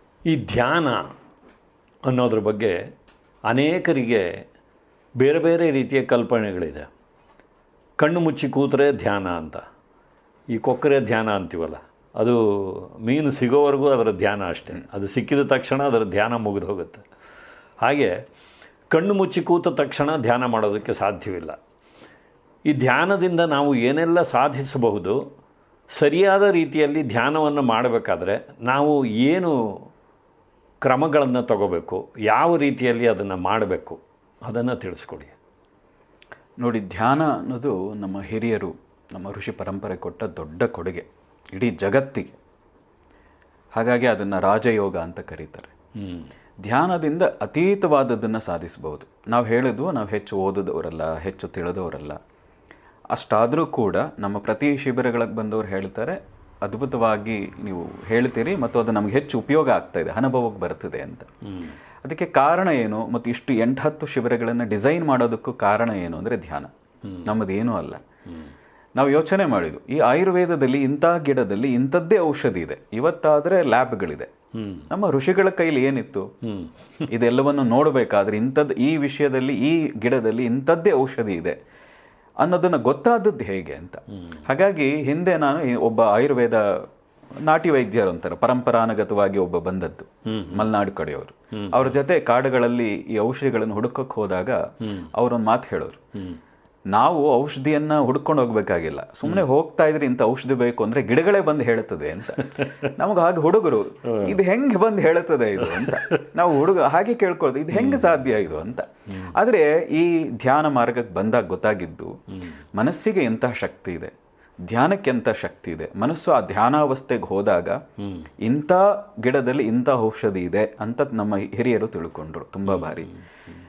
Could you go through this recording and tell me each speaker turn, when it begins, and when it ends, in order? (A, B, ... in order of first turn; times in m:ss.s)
0:00.2-0:01.1 A
0:02.1-0:02.8 A
0:03.5-0:04.3 A
0:05.2-0:06.9 A
0:08.0-0:09.6 A
0:10.5-0:17.0 A
0:17.8-0:18.1 A
0:18.9-0:21.6 A
0:22.7-0:25.2 A
0:26.0-0:29.9 A
0:30.8-0:35.3 A
0:36.6-0:42.4 B
0:43.7-0:45.7 B
0:46.0-0:46.3 A
0:46.6-0:52.2 B
0:53.1-1:01.3 B
1:01.5-1:01.7 A
1:02.0-1:06.7 B
1:07.2-1:08.0 B
1:09.0-1:14.3 B
1:14.6-1:14.8 A
1:14.9-1:16.3 B
1:17.1-1:21.6 B
1:22.4-1:26.8 B
1:27.4-1:34.6 B
1:30.2-1:30.6 A
1:35.1-1:36.0 B
1:36.9-1:52.1 B
1:45.7-1:46.2 A
1:47.7-1:48.1 A
1:52.7-1:54.1 B
1:54.7-1:57.8 B
1:58.0-1:58.3 A
1:58.4-2:03.1 B
2:02.7-2:03.2 A